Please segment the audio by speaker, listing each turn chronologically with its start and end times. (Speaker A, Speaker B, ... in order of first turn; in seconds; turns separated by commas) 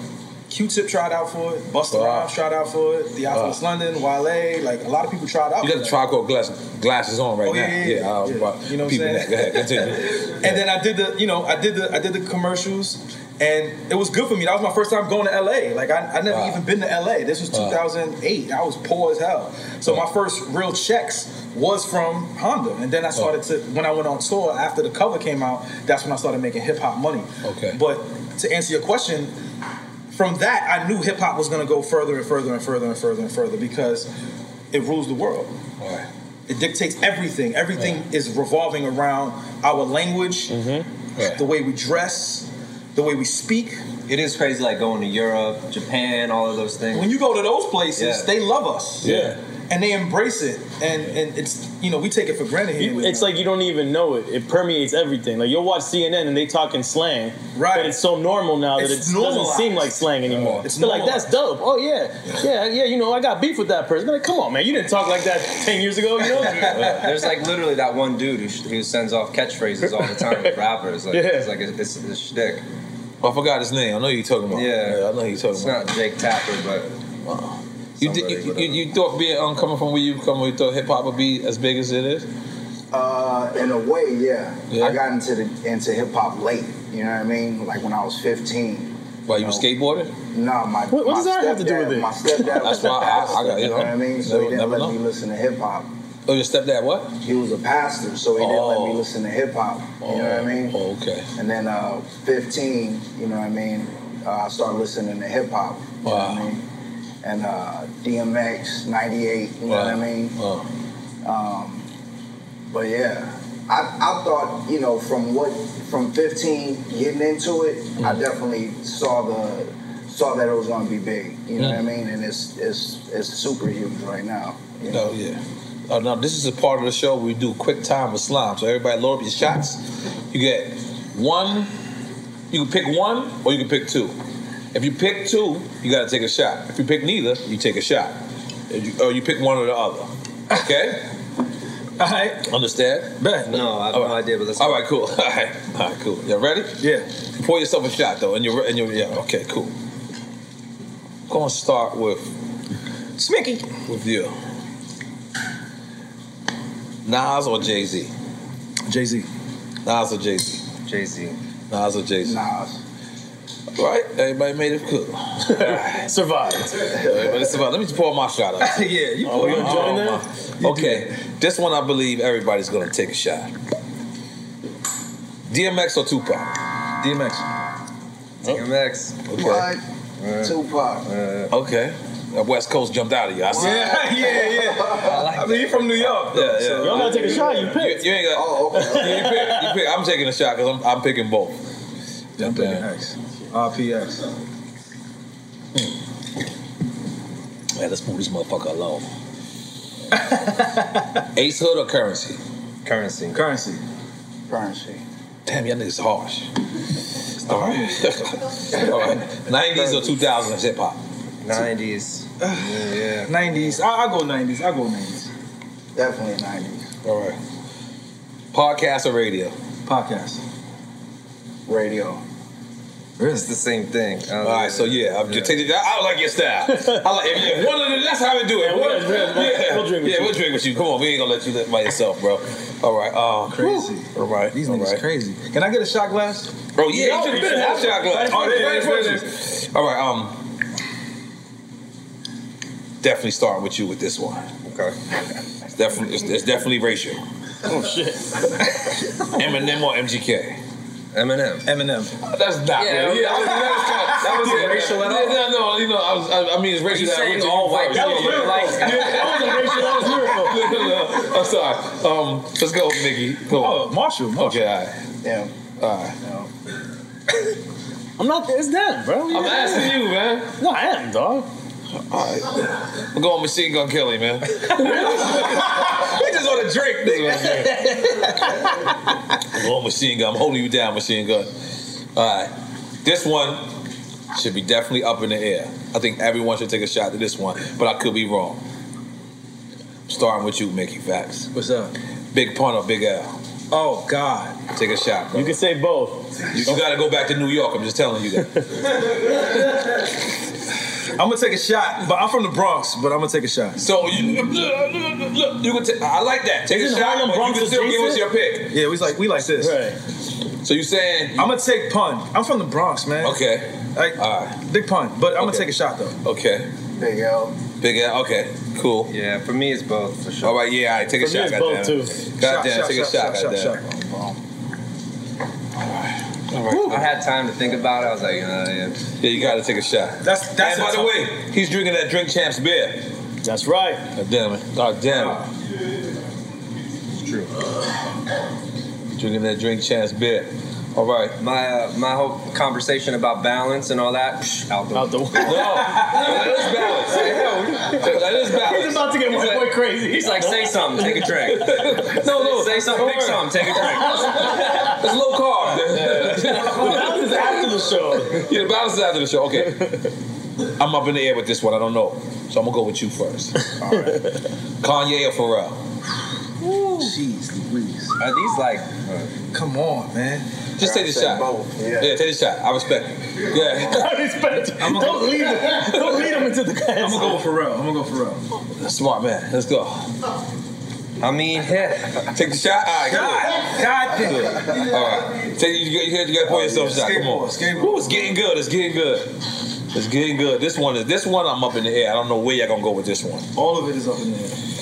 Speaker A: 0.5-5.9, Speaker B: 1.9-2.3, Speaker B: 3.3-3.6, Speaker B: 5.6-10.6, Speaker A: 7.4-29.3, Speaker B: 16.3-16.6, Speaker B: 17.5-17.8, Speaker B: 27.4-27.8, Speaker A: 30.1-34.1, Speaker A: 34.7-35.5, Speaker B: 35.8-36.1, Speaker A: 36.5-40.5, Speaker C: 40.5-40.9, Speaker B: 41.1-41.4, Speaker A: 41.3-43.8, Speaker D: 44.1-47.1, Speaker A: 46.9-49.1, Speaker D: 48.0-48.3, Speaker B: 49.0-49.4, Speaker C: 49.0-49.3, Speaker A: 49.7-53.4, Speaker C: 52.8-66.9, Speaker A: 57.5-58.0, Speaker A: 58.8-60.0, Speaker B: 60.4-60.6, Speaker A: 60.6-61.3, Speaker A: 66.3-67.0, Speaker B: 66.6-67.1, Speaker D: 67.0-72.6, Speaker C: 70.2-70.5, Speaker C: 71.1-71.5, Speaker B: 73.2-75.8, Speaker D: 74.5-75.0, Speaker D: 75.5-76.9, Speaker B: 77.2-82.3, Speaker D: 78.0-78.8, Speaker E: 82.9-89.6, Speaker B: 84.7-85.0, Speaker B: 89.3-90.1, Speaker E: 90.3-95.9, Speaker C: 90.9-92.7, Speaker B: 92.5-95.0, Speaker B: 96.3-97.2, Speaker E: 97.2-100.8, Speaker B: 98.4-99.1, Speaker B: 100.0-101.3, Speaker E: 101.3-106.6, Speaker B: 106.0-106.5, Speaker E: 107.2-110.3, Speaker B: 109.7-110.7, Speaker E: 111.2-111.8, Speaker E: 112.7-125.1, Speaker B: 118.0-118.2, Speaker B: 121.6-121.8, Speaker B: 124.9-131.7, Speaker B: 132.5-134.1, Speaker B: 134.7-138.2, Speaker B: 138.7-141.0, Speaker A: 142.0-142.5, Speaker B: 142.5-143.2, Speaker A: 143.2-143.6, Speaker D: 143.5-144.8, Speaker B: 143.9-146.8, Speaker A: 146.8-147.1, Speaker B: 147.4-149.7, Speaker B: 151.3-152.3, Speaker A: 153.2-153.7, Speaker B: 153.9-154.3, Speaker B: 157.0-158.1, Speaker A: 158.9-159.3, Speaker B: 159.8-160.6, Speaker D: 160.8-161.4, Speaker B: 161.7-162.4, Speaker E: 162.2-162.8, Speaker B: 163.8-166.1, Speaker C: 165.4-166.9, Speaker B: 166.8-173.5, Speaker A: 168.6-171.1, Speaker C: 169.2-170.2, Speaker B: 175.5-176.5, Speaker A: 177.0-177.4, Speaker D: 178.4-179.2, Speaker B: 179.3-179.7, Speaker E: 179.3-179.8, Speaker D: 180.2-181.5, Speaker E: 180.4-181.1, Speaker B: 181.5-184.0, Speaker E: 183.5-185.2, Speaker A: 183.6-187.6, Speaker D: 184.9-186.2, Speaker B: 186.3-191.6, Speaker C: 186.8-188.1, Speaker E: 188.2-189.3, Speaker C: 188.7-189.7, Speaker B: 192.4-192.8, Speaker A: 192.4-194.2, Speaker B: 197.8-199.1, Speaker A: 200.1-201.2, Speaker B: 201.3-202.4, Speaker D: 202.8-203.4, Speaker A: 203.3-203.8, Speaker E: 204.5-205.0, Speaker B: 205.4-206.5, Speaker A: 207.4-208.0, Speaker B: 207.4-211.0, Speaker E: 209.7-210.2, Speaker D: 211.4-213.3, Speaker A: 212.4-215.3, Speaker E: 215.9-216.9, Speaker B: 217.0-217.4, Speaker B: 218.5-219.5, Speaker A: 219.8-220.4, Speaker E: 221.7-222.2, Speaker A: 223.2-223.5, Speaker D: 223.3-225.6, Speaker B: 224.4-235.0, Speaker C: 228.6-230.4, Speaker A: 233.5-236.5, Speaker B: 236.8-240.4, Speaker C: 236.9-239.0, Speaker A: 238.1-239.3, Speaker B: 243.0-244.5, Speaker D: 244.7-244.9, Speaker B: 245.7-247.2, Speaker C: 247.7-248.3, Speaker B: 249.3-250.6, Speaker D: 251.1-251.7, Speaker A: 251.6-252.2, Speaker B: 252.2-264.9, Speaker D: 252.8-255.4, Speaker A: 253.9-255.0, Speaker D: 256.9-259.7, Speaker C: 257.9-260.8, Speaker A: 263.5-264.7, Speaker E: 265.2-265.5, Speaker B: 265.8-266.1, Speaker E: 266.2-266.5, Speaker C: 268.2-270.0, Speaker B: 269.3-270.5, Speaker C: 270.6-271.5, Speaker B: 272.0-276.2, Speaker C: 274.8-275.3, Speaker A: 274.8-278.9, Speaker B: 277.0-277.7, Speaker C: 277.5-278.2, Speaker B: 279.5-281.5, Speaker B: 282.1-282.5, Speaker B: 283.0-283.7, Speaker B: 284.3-288.6, Speaker B: 290.1-291.5, Speaker A: 291.5-291.9, Speaker B: 292.3-293.3, Speaker A: 293.7-294.6, Speaker B: 294.7-295.6, Speaker C: 295.3-296.3, Speaker B: 296.5-298.6, Speaker A: 301.1-303.8, Speaker B: 303.8-308.7, Speaker C: 306.7-308.2, Speaker A: 308.7-309.8, Speaker C: 309.5-310.0, Speaker B: 310.6-311.5, Speaker A: 311.4-313.4, Speaker B: 313.2-314.6, Speaker A: 313.9-316.1, Speaker B: 315.4-315.7, Speaker B: 316.2-316.7, Speaker E: 316.9-317.6, Speaker B: 317.8-319.1, Speaker D: 319.1-320.6, Speaker B: 320.4-323.8, Speaker C: 321.2-322.2, Speaker A: 322.4-323.9, Speaker E: 323.9-324.4, Speaker B: 325.8-327.1, Speaker D: 326.9-329.0, Speaker B: 329.2-333.1, Speaker A: 330.2-331.2, Speaker C: 333.4-334.1, Speaker B: 334.1-335.4, Speaker A: 335.1-335.4, Speaker B: 339.1-341.4, Speaker D: 341.4-345.6, Speaker C: 344.9-345.8, Speaker B: 345.4-349.1, Speaker A: 345.8-346.4, Speaker D: 347.0-348.1, Speaker C: 348.6-351.3, Speaker D: 349.3-354.9, Speaker B: 351.3-357.7, Speaker C: 354.0-354.8, Speaker C: 356.0-358.5, Speaker B: 358.3-359.9, Speaker B: 360.8-363.6, Speaker E: 363.8-364.2, Speaker B: 364.8-365.8, Speaker A: 366.9-368.1, Speaker D: 368.2-369.3, Speaker A: 369.5-370.5, Speaker B: 370.8-374.1, Speaker E: 370.8-372.2, Speaker C: 373.8-377.4, Speaker A: 374.8-375.9, Speaker B: 375.8-376.3, Speaker A: 377.0-378.4, Speaker B: 378.8-380.1, Speaker D: 381.2-382.2, Speaker B: 382.3-389.3, Speaker A: 383.1-384.9, Speaker E: 384.6-384.9, Speaker E: 386.5-387.1, Speaker A: 386.8-388.3, Speaker B: 389.9-393.5, Speaker A: 393.6-394.6